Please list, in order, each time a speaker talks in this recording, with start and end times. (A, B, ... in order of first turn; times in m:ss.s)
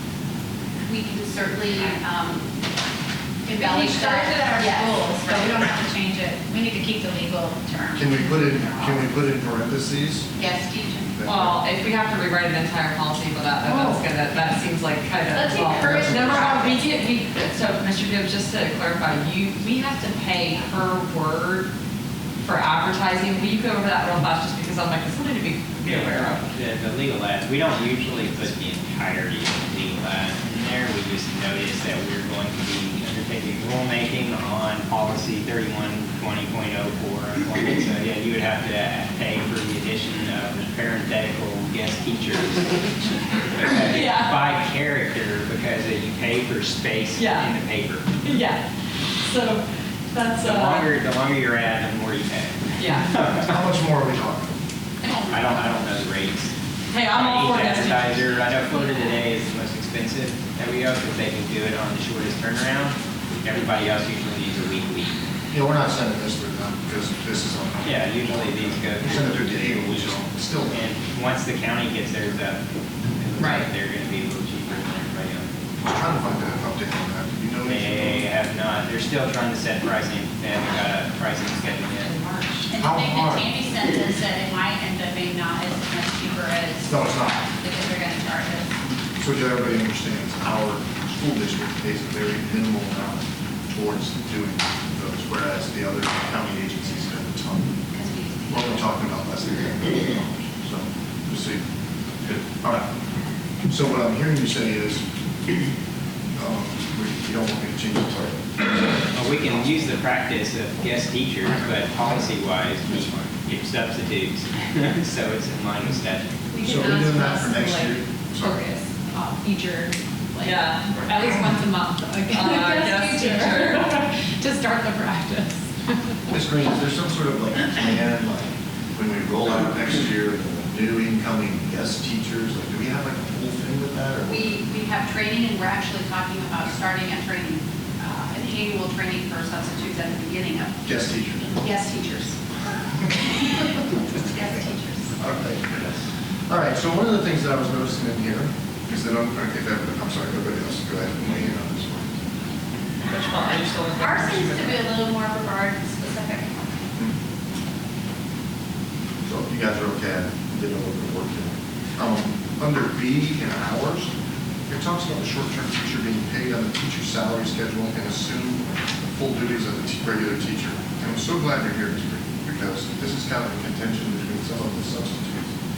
0:00.8-0:02.6 A
0:03.4-0:05.6 A
0:03.5-0:09.0 B
0:07.9-0:10.3 C
0:10.4-0:11.3 A
0:11.2-0:11.6 C
0:11.2-0:21.7 D
0:13.6-0:14.0 A
0:15.3-0:16.9 A
0:15.6-0:16.0 B
0:22.4-0:26.4 D
0:25.8-0:48.1 E
0:43.8-0:44.4 D
0:47.2-0:47.5 D
0:48.2-0:48.6 D
0:49.2-0:50.9 D
0:50.4-0:53.6 E
0:52.8-0:53.1 D
0:53.3-0:54.6 C
0:55.2-0:56.5 E
0:56.9-0:58.2 D
0:57.1-1:05.1 E
1:05.5-1:10.8 C
1:07.8-1:12.6 E
1:13.2-1:15.5 E
1:13.4-1:13.7 D
1:15.8-1:18.3 C
1:17.6-1:22.6 E
1:22.7-1:28.7 B
1:22.7-1:23.5 C
1:26.8-1:27.4 C
1:29.2-1:37.8 C
1:37.9-1:38.8 B
1:38.5-1:41.6 C
1:42.2-1:42.9 C
1:43.7-1:45.0 C
1:46.4-1:49.9 C
1:49.1-1:56.4 E
1:51.6-1:52.3 C
1:52.9-1:53.3 C
1:56.5-2:05.6 F
1:56.6-1:58.6 C
2:00.4-2:01.0 D
2:02.3-2:03.9 D
2:04.8-2:05.0 B
2:06.3-2:14.5 C
2:14.2-2:20.7 A
2:20.8-2:21.6 C
2:21.5-2:22.4 A
2:24.2-2:25.2 A
2:25.2-2:32.1 C
2:33.1-2:34.9 D
2:34.0-2:36.7 B
2:39.2-2:44.1 C
2:44.7-2:55.5 C